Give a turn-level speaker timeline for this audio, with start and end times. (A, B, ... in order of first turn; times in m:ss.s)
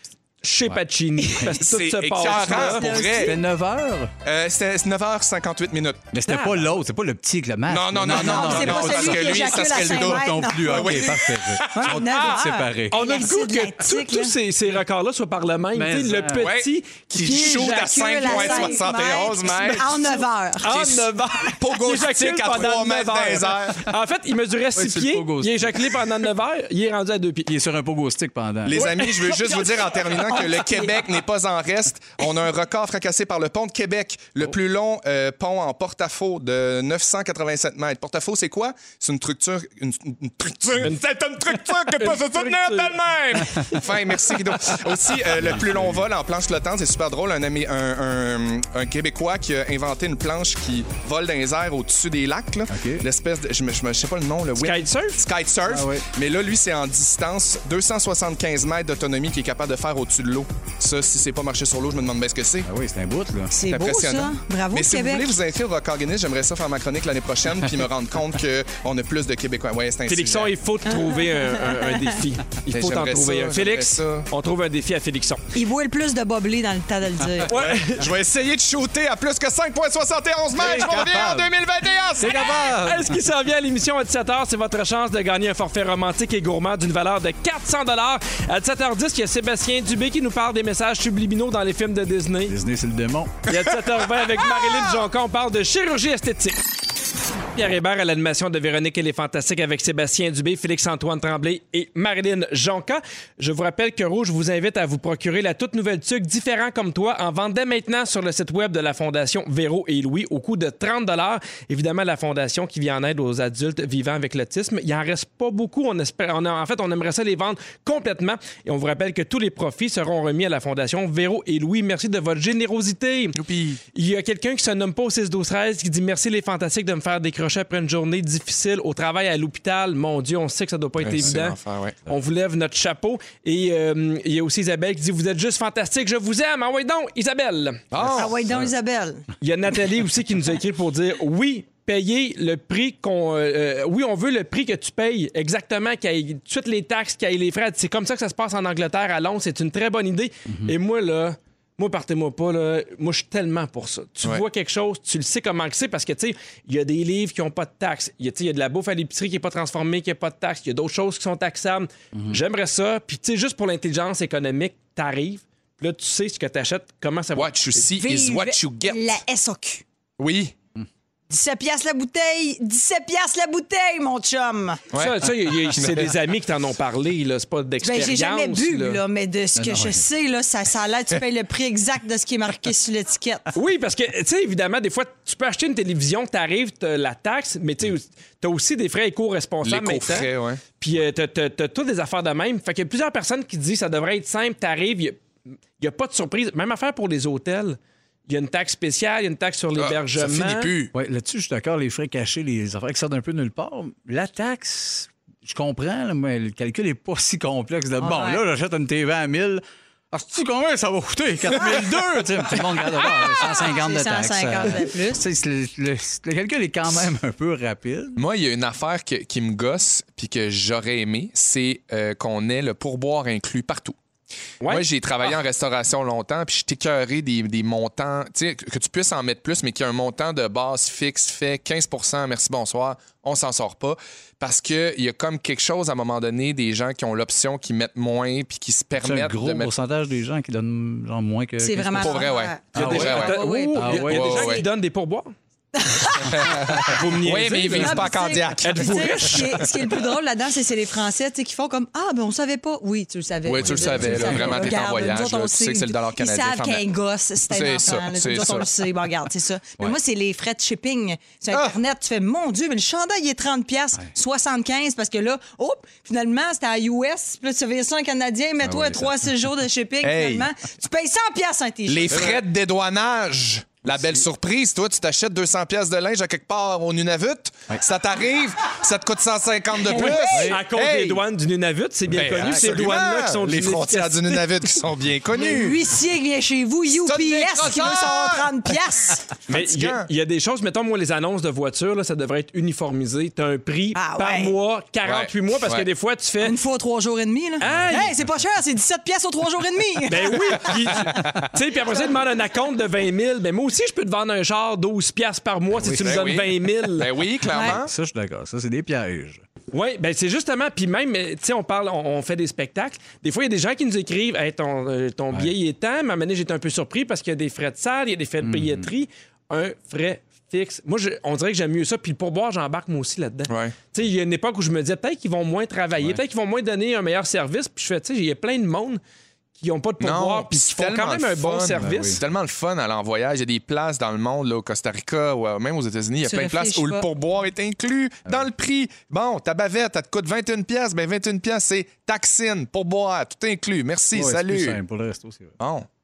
0:00.4-0:02.8 A
0:01.2-0:01.6 B
0:01.6-0:03.4 C
0:02.2-0:03.4 B
0:03.1-0:04.1 D
0:04.2-0:06.1 C
0:06.1-0:13.0 D
0:06.3-0:06.6 A
0:07.7-0:12.0 C
0:08.1-0:11.2 B
0:11.7-0:14.3 B
0:12.9-0:18.8 A
0:15.7-0:16.5 D
0:16.4-0:20.8 C
0:17.4-0:20.9 B
0:20.6-0:27.5 A
0:21.6-0:23.9 C
0:24.7-0:25.9 D
0:27.4-0:28.9 D
0:28.6-1:02.7 C
0:28.7-0:29.5 A
0:30.4-0:30.9 B
0:41.6-0:43.0 A
0:43.5-0:43.8 A
0:45.4-0:46.0 D
0:52.7-0:53.0 D
0:54.6-0:55.2 A
0:55.7-0:56.0 D
1:02.6-1:03.5 D
1:03.5-1:05.4 B
1:03.7-1:10.5 C
1:10.1-1:15.4 A
1:10.9-1:12.0 B
1:12.7-1:14.3 C
1:15.5-1:17.5 B
1:17.5-1:18.1 A
1:17.5-1:22.4 C
1:20.6-1:21.5 D
1:22.2-1:23.2 D
1:22.2-1:32.5 A
1:32.5-1:33.5 D
1:33.5-1:36.6 A
1:37.5-2:03.4 A
2:03.3-2:03.8 C
2:03.9-2:17.8 A
2:11.0-2:12.0 C
2:17.9-2:18.7 C
2:18.0-2:19.3 B
2:19.4-2:47.8 A
2:30.5-2:30.7 D
2:47.3-2:49.1 C
2:48.0-2:49.8 B
2:50.2-2:50.5 C
2:51.3-2:54.8 B
2:54.9-2:55.2 C
2:55.0-2:59.0 A
2:55.7-2:56.1 C
2:57.8-3:03.5 B
2:59.5-3:00.1 D
3:03.5-3:10.3 A
3:09.6-3:10.6 C
3:10.8-3:15.2 A
3:15.8-3:20.7 A
3:19.8-3:20.9 C
3:20.9-3:38.2 D
3:28.0-3:28.4 B
3:33.0-3:35.2 B
3:38.2-3:44.0 C
3:44.7-3:59.7 C
3:59.0-4:04.5 D
4:01.6-4:04.6 B
4:02.0-4:04.6 C
4:02.7-4:05.3 A
4:05.7-4:06.9 B
4:06.4-4:09.7 C
4:06.7-4:08.0 D
4:07.0-4:08.0 A
4:07.7-4:32.3 B
4:08.6-4:09.6 A
4:13.4-4:16.9 C
4:13.5-4:14.8 D
4:17.5-4:18.7 C
4:21.5-4:21.8 C
4:28.6-4:29.3 D
4:30.0-4:30.5 C
4:31.9-4:41.2 C
4:33.9-4:34.2 D
4:39.8-4:40.6 B
4:39.9-4:44.4 A
4:42.1-4:45.9 C
4:42.4-4:42.7 D
4:45.3-4:49.3 B
4:46.9-4:48.8 C
4:49.3-4:50.1 C
4:49.5-4:56.5 A
4:53.9-4:54.6 B
4:55.0-4:55.8 C
4:56.4-5:00.8 B
4:57.6-4:58.1 A
5:00.1-5:07.1 A
5:01.1-5:01.4 C
5:05.8-5:06.2 D
5:06.0-5:07.9 C
5:07.5-5:07.8 B
5:07.5-5:09.4 D
5:09.7-5:29.0 A
5:18.4-5:18.9 D
5:23.5-5:23.8 C
5:29.6-5:32.2 A
5:30.0-5:44.8 C
5:31.8-5:32.2 D
5:36.2-5:37.1 B
5:44.1-5:45.6 D
5:45.6-5:45.9 C